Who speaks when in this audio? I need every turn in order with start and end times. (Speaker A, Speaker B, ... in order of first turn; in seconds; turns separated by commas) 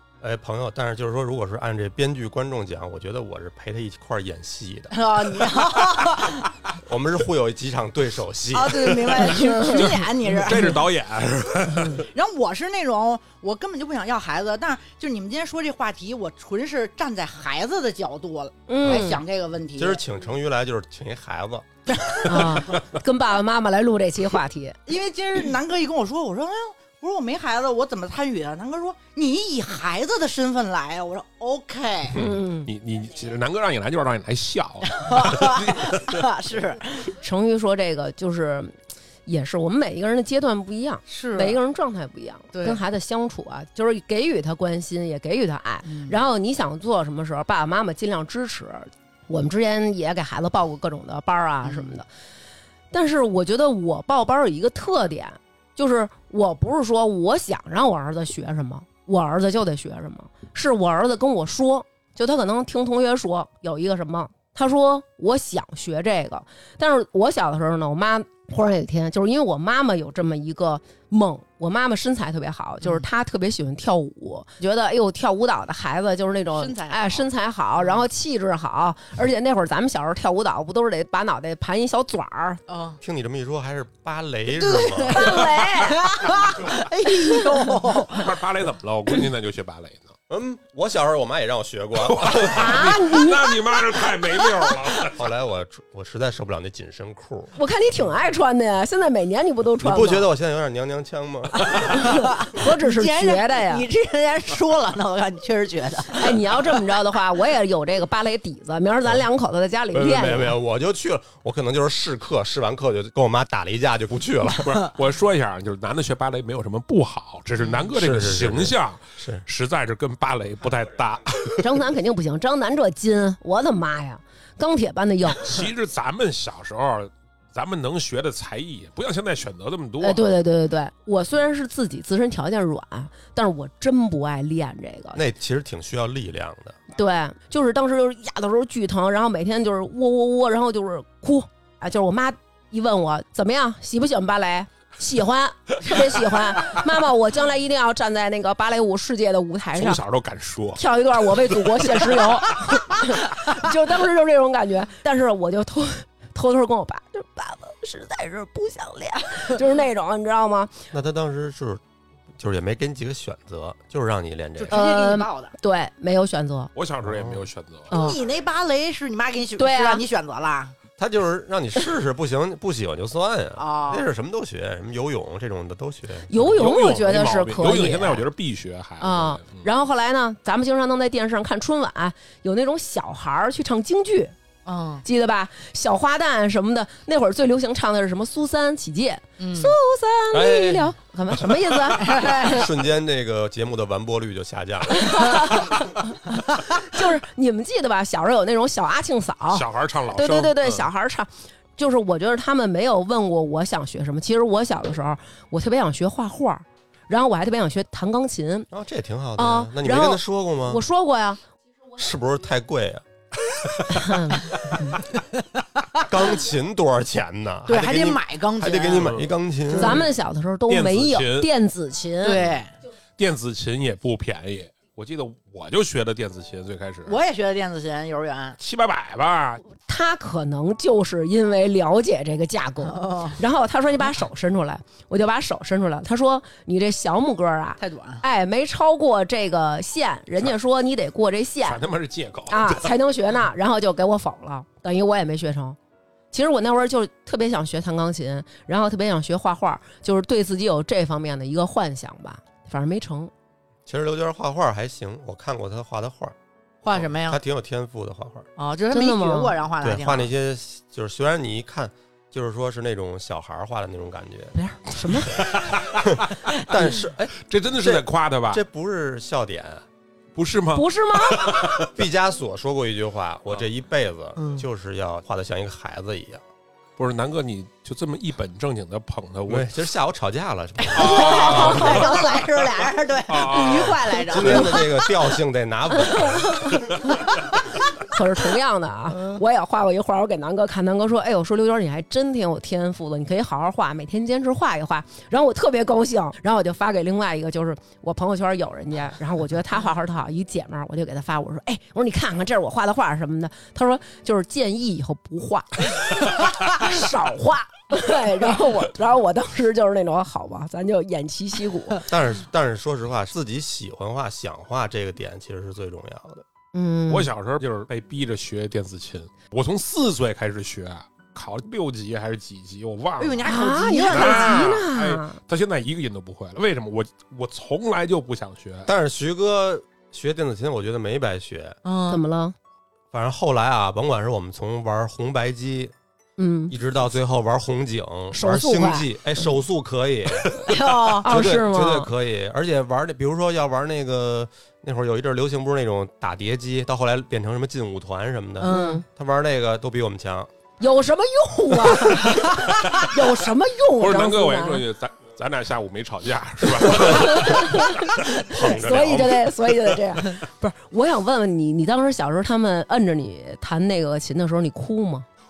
Speaker A: 0.2-5.0, Speaker B: 4.9-6.4, Speaker A: 6.8-9.1, Speaker B: 8.5-10.8, Speaker C: 9.2-9.9, Speaker D: 9.7-12.1, Speaker B: 11.9-20.0, Speaker C: 18.7-19.2, Speaker A: 19.8-21.7, Speaker B: 21.9-22.7, Speaker C: 22.2-24.8, Speaker B: 24.9-32.2, Speaker D: 32.1-36.2, Speaker C: 32.1-32.7, Speaker B: 34.9-37.1, Speaker C: 37.2-38.7, Speaker C: 39.2-52.1, Speaker B: 41.1-41.6, Speaker B: 42.5-42.8, Speaker B: 45.9-46.2, Speaker B: 51.6-51.9, Speaker C: 52.9-82.6, Speaker B: 76.5-77.3, Speaker B: 82.7-83.0, Speaker A: 83.0-85.5, Speaker B: 84.5-88.3, Speaker C: 85.1-86.1, Speaker D: 88.1-90.1, Speaker A: 90.3-92.8, Speaker D: 92.0-95.2, Speaker C: 92.4-94.0, Speaker A: 95.1-97.5, Speaker C: 97.6-100.3, Speaker A: 99.8-102.3, Speaker B: 101.6-106.6, Speaker C: 101.9-103.8, Speaker C: 106.1-110.5, Speaker A: 109.9-114.9, Speaker D: 114.6-121.6, Speaker A: 117.9-119.4, Speaker C: 121.6-125.6, Speaker D: 125.4-130.3, Speaker C: 130.0-135.2, Speaker A: 135.1-136.8, Speaker C: 136.9-150.0, Speaker D: 149.7-152.2, Speaker C: 150.8-160.7, Speaker A: 160.9-161.8, Speaker A: 162.4-164.8, Speaker B: 164.6-165.5, Speaker C: 164.7-166.7, Speaker D: 166.8-167.9, Speaker A: 167.0-167.4, Speaker C: 167.9-168.2, Speaker B: 167.9-170.8, Speaker C: 169.6-170.0, Speaker A: 171.0-176.6, Speaker B: 173.6-174.1, Speaker C: 176.3-178.2, Speaker D: 176.6-179.7, Speaker C: 179.0-184.3, Speaker B: 184.7-185.1, Speaker C: 185.0-192.3, Speaker B: 189.4-189.8, Speaker A: 190.3-190.9, Speaker B: 192.0-192.7, Speaker A: 192.1-195.7, Speaker C: 194.9-195.8, Speaker C: 196.8-208.7, Speaker D: 199.5-200.9, Speaker A: 208.7-210.8, Speaker C: 209.4-211.4, Speaker A: 211.9-213.0, Speaker C: 213.9-215.0, Speaker A: 216.0-220.1, Speaker B: 217.7-219.2, Speaker D: 219.0-219.3, Speaker B: 219.7-220.1, Speaker C: 219.7-222.5, Speaker D: 220.7-221.5, Speaker B: 222.2-222.7, Speaker D: 223.2-227.2, Speaker B: 227.1-228.6, Speaker D: 228.6-229.6, Speaker C: 229.7-241.8, Speaker B: 232.8-233.4, Speaker B: 237.8-238.2, Speaker D: 241.6-242.9, Speaker C: 242.5-245.8, Speaker C: 246.3-253.3, Speaker A: 253.8-256.3, Speaker B: 256.8-257.4, Speaker A: 256.9-258.5, Speaker B: 258.6-260.3, Speaker C: 258.9-259.6, Speaker A: 259.8-264.5, Speaker C: 264.5-265.5, Speaker D: 265.3-268.6, Speaker A: 266.1-269.8, Speaker D: 270.4-271.9, Speaker C: 270.8-271.6, Speaker A: 271.8-276.4, Speaker B: 274.4-274.6, Speaker D: 277.0-279.8, Speaker A: 279.5-282.2, Speaker D: 280.9-282.7, Speaker B: 280.9-285.1, Speaker D: 283.3-284.5, Speaker A: 284.3-286.8, Speaker C: 284.3-284.9, Speaker C: 285.9-286.8, Speaker C: 288.1-312.1, Speaker A: 312.1-316.4, Speaker C: 316.7-317.3, Speaker D: 317.1-323.5, Speaker B: 323.2-324.8, Speaker C: 323.4-325.4, Speaker D: 324.1-328.9, Speaker A: 328.9-331.8, Speaker B: 331.8-332.2, Speaker C: 332.1-332.6, Speaker A: 333.1-335.9, Speaker C: 336.4-336.7, Speaker A: 336.7-340.7, Speaker C: 338.3-339.1, Speaker B: 340.7-341.3, Speaker C: 341.2-342.1, Speaker A: 341.2-350.5, Speaker B: 348.6-349.0, Speaker C: 348.6-349.0, Speaker C: 350.8-354.8, Speaker D: 354.0-360.0, Speaker C: 356.8-365.3